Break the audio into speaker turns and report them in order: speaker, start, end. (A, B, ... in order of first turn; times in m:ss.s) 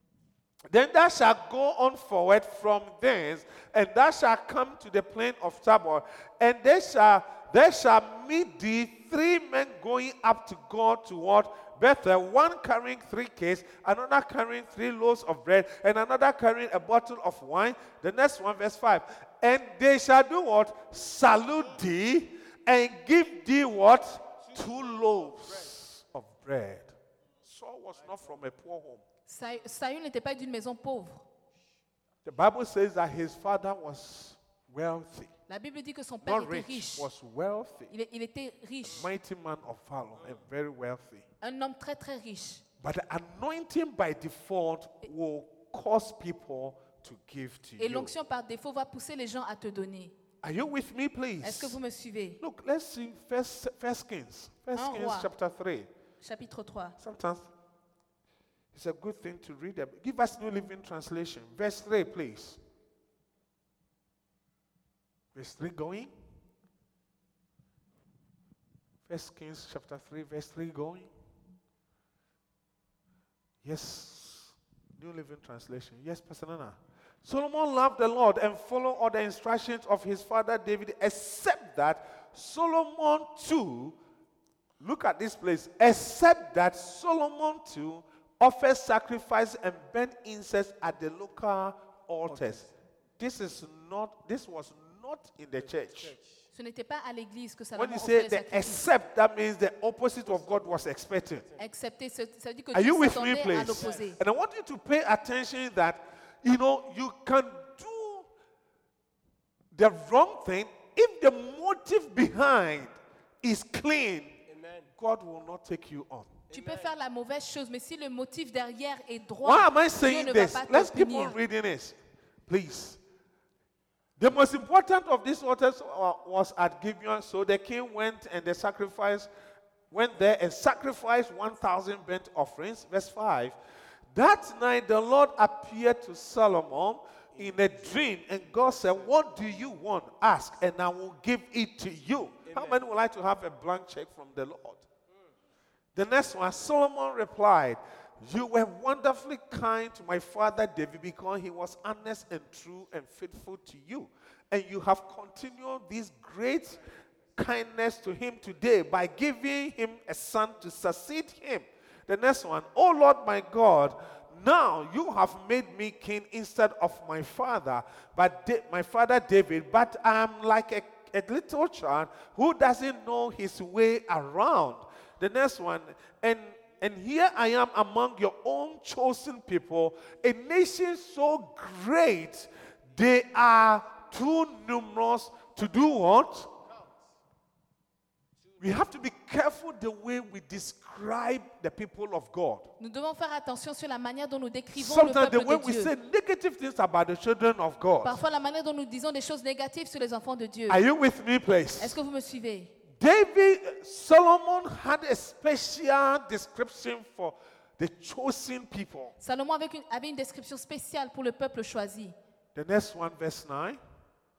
0:00.7-0:29.0 A
0:29.3-0:31.2 B
0:32.2-0:35.3 A
0:35.5-0:37.1 B
0:36.2-0:37.9 A
0:37.9-0:39.1 B
0:38.8-0:41.2 A
0:41.4-0:42.6 B
0:42.8-0:48.1 A
0:47.8-0:50.1 B
0:50.4-0:51.8 A
0:51.4-0:52.4 B
0:52.4-0:55.9 A
0:54.7-0:55.3 B
0:56.2-0:57.0 B
0:57.0-0:57.5 A
0:58.7-1:02.6 A
1:05.3-1:06.1 A
1:09.1-1:11.1 A
1:13.6-1:24.0 A
1:24.8-1:32.6 A
1:32.3-1:32.6 C
1:33.2-1:36.1 A
1:36.0-1:36.2 C
1:36.5-1:38.9 B
1:37.7-1:41.5 A
1:41.6-1:44.2 B
1:42.7-1:48.3 A
1:49.7-1:54.4 A
1:54.5-1:54.9 C
1:55.0-1:56.5 A
1:56.5-1:56.9 C
1:56.5-2:01.4 B
1:59.4-2:03.0 A
2:04.2-2:09.3 A
2:09.9-2:13.6 A
2:14.1-2:24.8 A
2:17.4-2:17.9 C
2:22.5-2:22.8 C
2:25.9-2:36.8 A
2:37.4-3:06.5 A
3:08.6-3:12.7 A
3:12.8-3:15.9 B
3:14.7-3:18.2 A
3:18.0-3:20.8 B
3:20.7-3:22.0 A
3:21.8-3:22.7 B
3:22.9-3:29.1 A
3:29.2-3:32.1 B
3:32.5-3:33.8 A